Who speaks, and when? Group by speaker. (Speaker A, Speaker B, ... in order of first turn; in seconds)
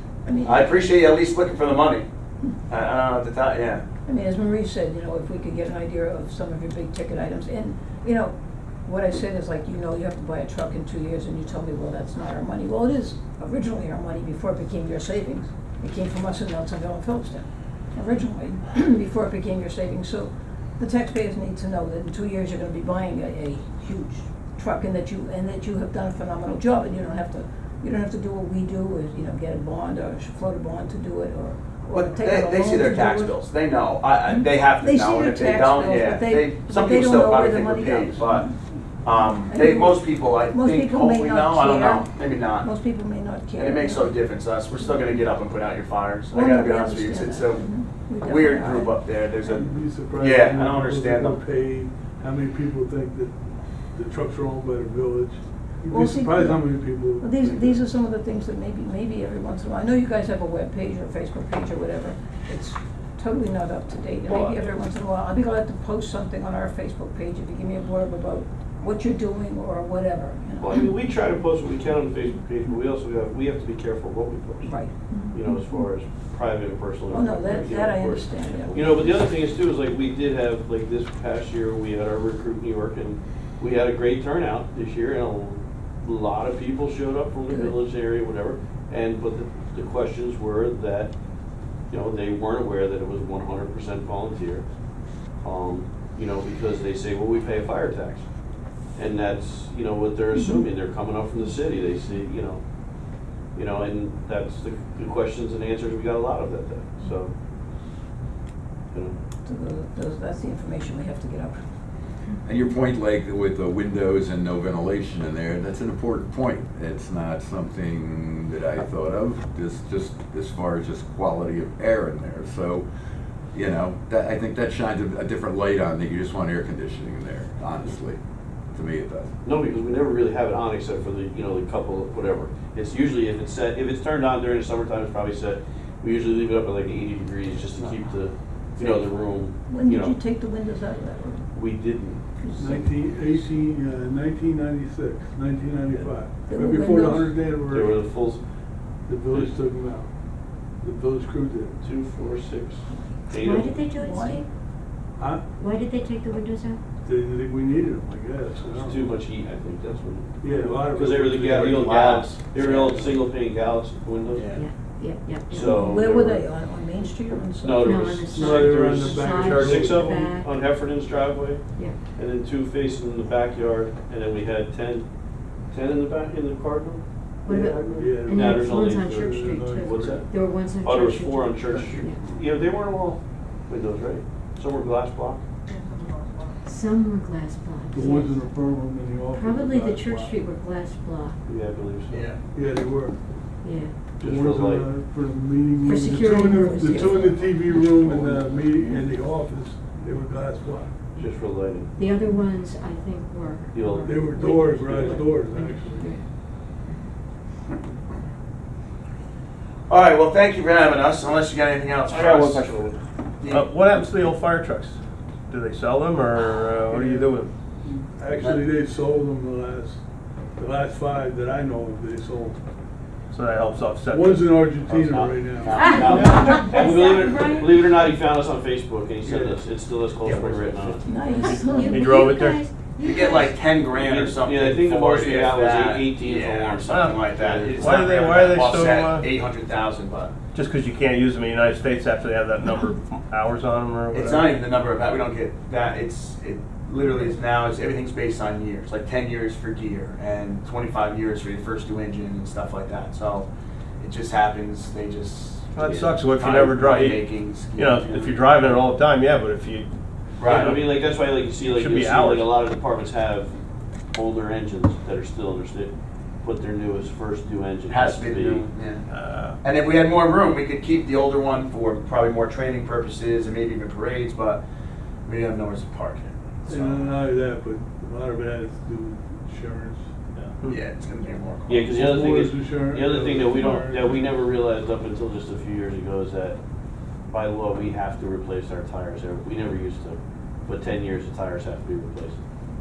Speaker A: 0.3-0.9, 4.0-8.3, 8.8-33.4, 34.3-38.7, 39.4-45.2, 46.3-49.7, 55.9-71.0, 74.6-75.8, 77.1-79.3, 87.5-87.8, 100.3-100.6, 109.4-111.6, 139.7-141.5, 142.4-143.0, 146.5-147.5, 154.0-154.4, 165.5-168.0, 195.8-197.4, 231.0-232.1
Speaker B: 0.4-2.1, 2.7-3.9, 31.9-38.5, 39.0-42.7, 43.6-47.7, 48.2-51.4, 161.5-163.0, 164.3-164.7, 192.1-192.4, 209.9-212.7, 213.4-213.7, 218.3-218.6, 225.6-226.2, 230.2-231.0, 231.5-232.1, 233.0-240.3, 244.1-253.5, 254.0-258.9, 260.4-260.7, 267.9-269.1, 269.6-274.6, 275.3-277.1, 280.6-282.0
Speaker C: 49.5-53.4, 54.0-57.8, 142.6-148.1, 149.1-150.1, 150.8-151.8, 155.2-155.4, 157.0-159.2, 160.4-162.0, 168.3-170.2, 177.5-180.3, 187.9-190.5, 192.5-193.2, 194.2-201.2, 204.0-206.2, 216.9-220.0, 220.6-222.6, 224.1-226.2, 229.2-229.6, 276.7-280.1, 281.9-284.2
Speaker D: 70.6-91.1, 91.9-94.7, 95.4-98.2, 99.0-102.6, 103.5-107.3, 108.9-109.2, 129.4-140.2, 141.5-142.2, 147.7-148.4, 151.8-153.9, 158.6-164.5, 165.5-166.4, 167.6-175.1, 175.7-185.4, 191.5-192.2, 194.2-194.9, 201.2-201.9, 203.7-205.4, 224.8-231.3, 233.8-238.0, 260.4-263.5, 264.1-268.7, 281.7-286.6, 287.3-292.4
Speaker E: 112.5-122.9, 123.5-128.2, 128.7-129.3
Speaker F: 153.3-154.4, 155.6-156.8, 164.5-165.7, 167.8-170.5, 177.5-182.2, 186.6-188.4, 189.3-191.4, 193.6-194.1, 196.0-197.6, 202.0-206.2, 225.8-227.7, 231.3-233.5
Speaker G: 212.1-217.5, 223.3-224.6, 226.2-226.8, 231.3-232.7, 236.8-239.3, 240.5-244.6, 255.8-259.9, 260.4-260.8, 261.6-262.6, 269.1-269.6, 280.4-280.8